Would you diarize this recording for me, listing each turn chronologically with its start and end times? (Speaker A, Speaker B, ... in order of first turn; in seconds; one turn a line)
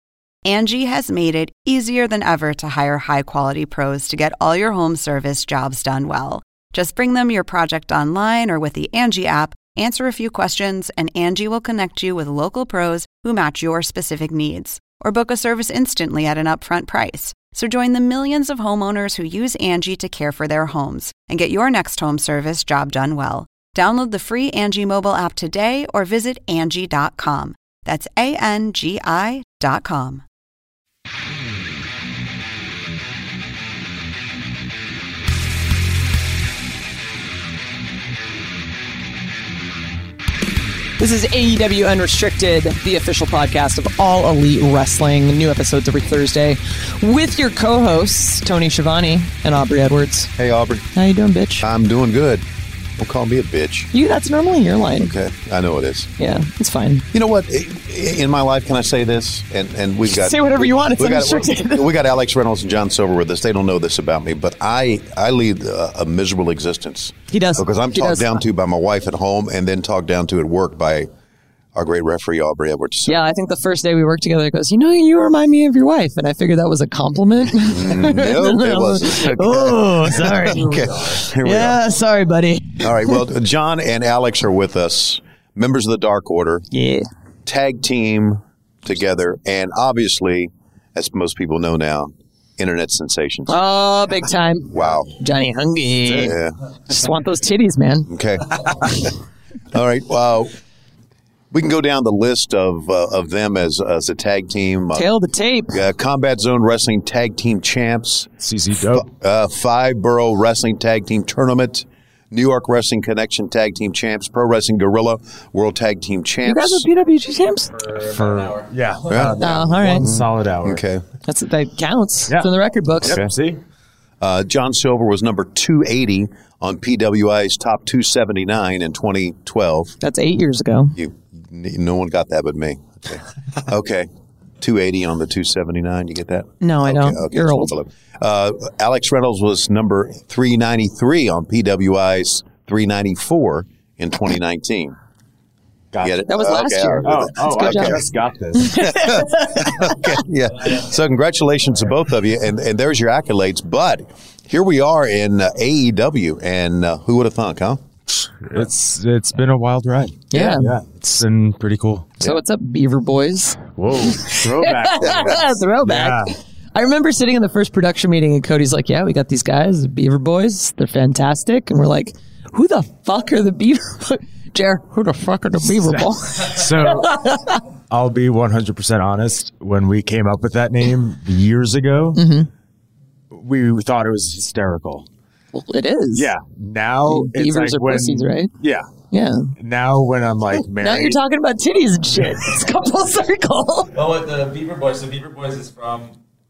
Speaker A: 0.4-30.2
Speaker B: 41.0-50.3
Speaker C: 50.4-50.9
Speaker B: 50.9-51.6
Speaker C: 51.6-52.4
Speaker C: 53.0-53.9
Speaker B: 53.9-55.1
Speaker C: 55.0-56.1
Speaker B: 56.2-57.0
Speaker C: 57.1-71.1
Speaker B: 60.1-61.9
Speaker B: 67.3-68.4
Speaker C: 71.7-73.2
Speaker B: 73.1-83.2
Speaker C: 77.6-81.8
Speaker C: 82.8-86.7
Speaker B: 86.7-87.0
Speaker C: 87.4-93.5
Speaker B: 93.5-96.3
Speaker C: 94.7-95.1
Speaker C: 96.0-96.5
Speaker B: 96.9-98.1
Speaker C: 98.1-99.1
Speaker C: 99.7-100.5
Speaker C: 101.5-105.1
Speaker B: 104.9-105.8
Speaker C: 105.7-108.3
Speaker D: 108.4-109.0
Speaker C: 108.8-116.9
Speaker B: 116.4-117.7
Speaker E: 117.7-119.3
Speaker D: 117.9-120.8
Speaker C: 119.1-119.4
Speaker B: 119.4-120.1
Speaker C: 120.0-121.0
Speaker B: 121.2-123.2
Speaker D: 123.0-123.6
Speaker C: 123.0-123.3
Speaker C: 124.2-129.9
Speaker B: 130.0-131.0
Speaker C: 130.9-134.1
Speaker C: 134.6-144.9
Speaker B: 136.6-137.7
Speaker D: 145.9-146.3
Speaker C: 146.0-148.1
Speaker B: 146.3-148.0
Speaker D: 147.0-148.9
Speaker B: 148.6-150.2
Speaker C: 148.8-157.8
Speaker D: 158.1-162.3
Speaker B: 160.3-160.7
Speaker B: 162.2-177.6
Speaker D: 163.8-166.3
Speaker D: 175.9-177.2
Speaker D: 177.9-182.2
Speaker B: 182.1-182.5
Speaker D: 183.3-185.1
Speaker B: 185.5-186.3
Speaker D: 186.1-188.9
Speaker B: 187.1-188.5
Speaker B: 189.1-189.5
Speaker D: 189.6-191.2
Speaker B: 190.8-193.9
Speaker E: 193.9-196.1